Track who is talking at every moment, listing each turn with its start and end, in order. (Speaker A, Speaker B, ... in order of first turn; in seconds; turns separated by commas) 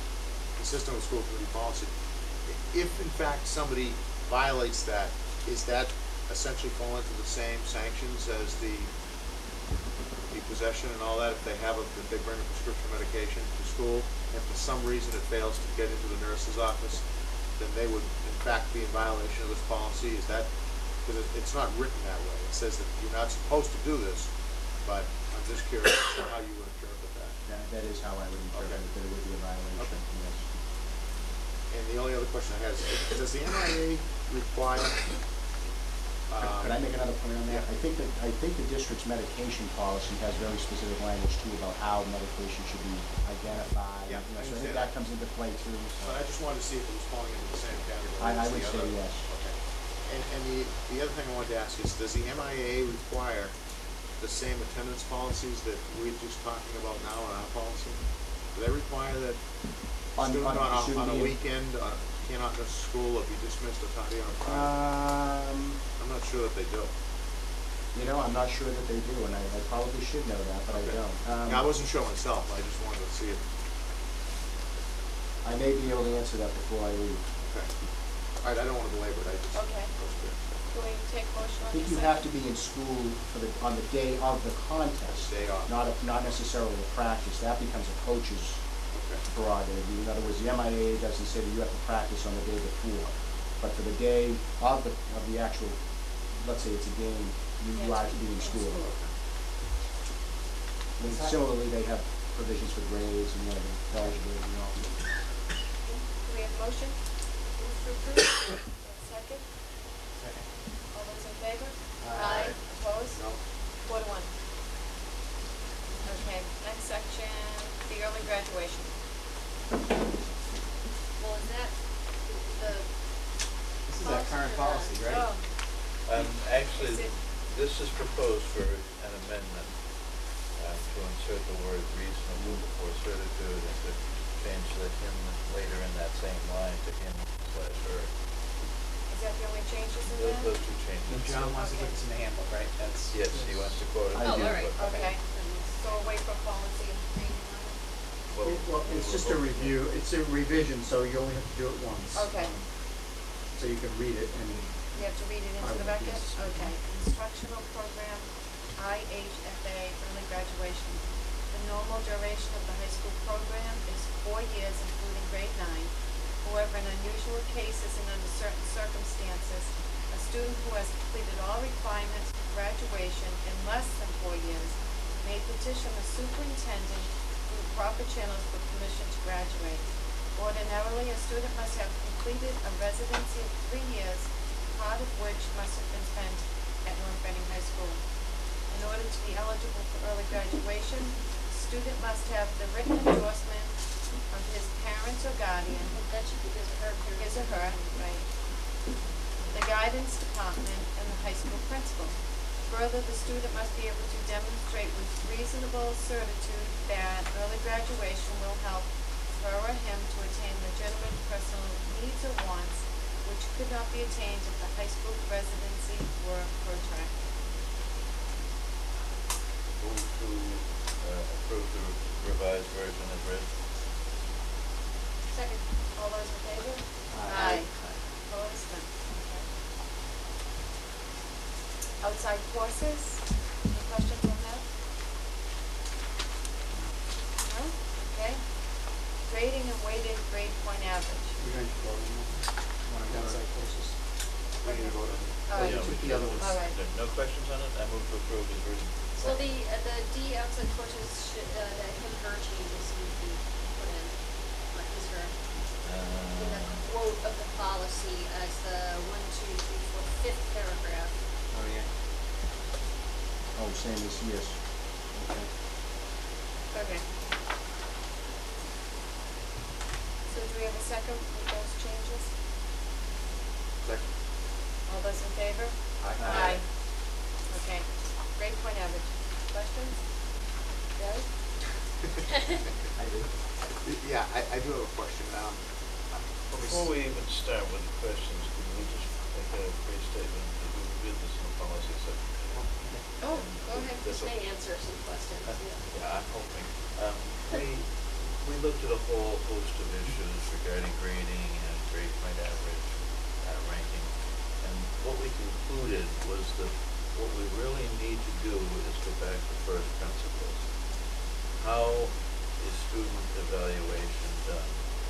Speaker A: 0.6-1.9, Speaker A: 2.5-8.9, Speaker A: 10.3-17.0, Speaker A: 17.6-20.5, Speaker A: 21.1-24.3, Speaker A: 24.8-27.4, Speaker B: 27.4-30.5, Speaker A: 28.5-28.9, Speaker A: 31.7-35.1, Speaker A: 36.3-36.8, Speaker B: 36.4-46.2, Speaker A: 44.1-45.0, Speaker A: 46.0-53.5, Speaker B: 48.2-49.3, Speaker A: 54.2-59.4, Speaker B: 60.2-61.4, Speaker A: 60.2-64.8, Speaker B: 64.4-65.8, Speaker A: 66.0-66.9, Speaker B: 67.9-71.7, Speaker A: 70.7-73.4, Speaker B: 75.4-77.2, Speaker A: 77.4-77.7, Speaker A: 78.4-80.4, Speaker C: 79.5-79.9, Speaker C: 80.7-82.3, Speaker B: 81.7-88.6, Speaker A: 85.1-86.3, Speaker A: 88.9-89.2, Speaker B: 89.2-98.9, Speaker C: 97.7-99.1, Speaker B: 101.0-105.0, Speaker D: 101.0-101.5, Speaker C: 105.9-107.0, Speaker C: 107.6-109.5, Speaker D: 110.2-110.5, Speaker C: 110.9-113.3, Speaker D: 112.0-112.5, Speaker E: 112.2-112.5, Speaker C: 113.8-114.3, Speaker C: 116.0-118.9, Speaker E: 121.2-122.9, Speaker D: 123.9-125.2, Speaker E: 124.0-125.0, Speaker C: 125.0-125.5, Speaker F: 126.0-138.1, Speaker C: 126.5-127.2, Speaker C: 139.1-140.6, Speaker F: 140.0-141.5, Speaker D: 141.1-143.2, Speaker C: 141.5-142.0, Speaker F: 143.1-144.8, Speaker G: 143.3-143.8, Speaker B: 144.1-144.5, Speaker E: 144.2-145.9, Speaker C: 144.2-147.8, Speaker D: 144.5-145.1, Speaker F: 148.3-149.9, Speaker G: 148.4-152.7, Speaker C: 152.1-152.6, Speaker G: 153.5-155.0, Speaker C: 154.5-188.0, Speaker G: 155.6-156.7, Speaker C: 188.7-193.8, Speaker C: 194.3-196.0, Speaker E: 195.9-198.0, Speaker C: 197.1-198.3, Speaker C: 199.5-217.2, Speaker F: 219.8-223.5, Speaker E: 225.3-225.6, Speaker C: 225.9-229.5, Speaker D: 227.1-227.6, Speaker F: 227.8-228.1, Speaker C: 232.0-234.7, Speaker C: 237.4-238.4, Speaker C: 239.2-241.4, Speaker G: 241.4-244.0, Speaker A: 244.6-245.9, Speaker C: 244.6-246.8, Speaker G: 245.2-246.3, Speaker F: 245.5-249.6, Speaker E: 249.2-255.5, Speaker F: 255.8-256.9, Speaker E: 256.3-261.1, Speaker D: 261.5-261.9, Speaker B: 263.6-264.6, Speaker B: 265.1-265.5, Speaker C: 266.7-267.1, Speaker C: 270.3-272.3, Speaker A: 273.8-274.1, Speaker C: 274.9-276.7, Speaker A: 276.0-276.6, Speaker C: 277.5-280.0, Speaker C: 281.0-281.3, Speaker A: 283.7-286.9, Speaker F: 286.5-294.4, Speaker C: 293.2-294.0, Speaker E: 294.0-295.9, Speaker F: 295.4-310.7, Speaker F: 311.6-314.8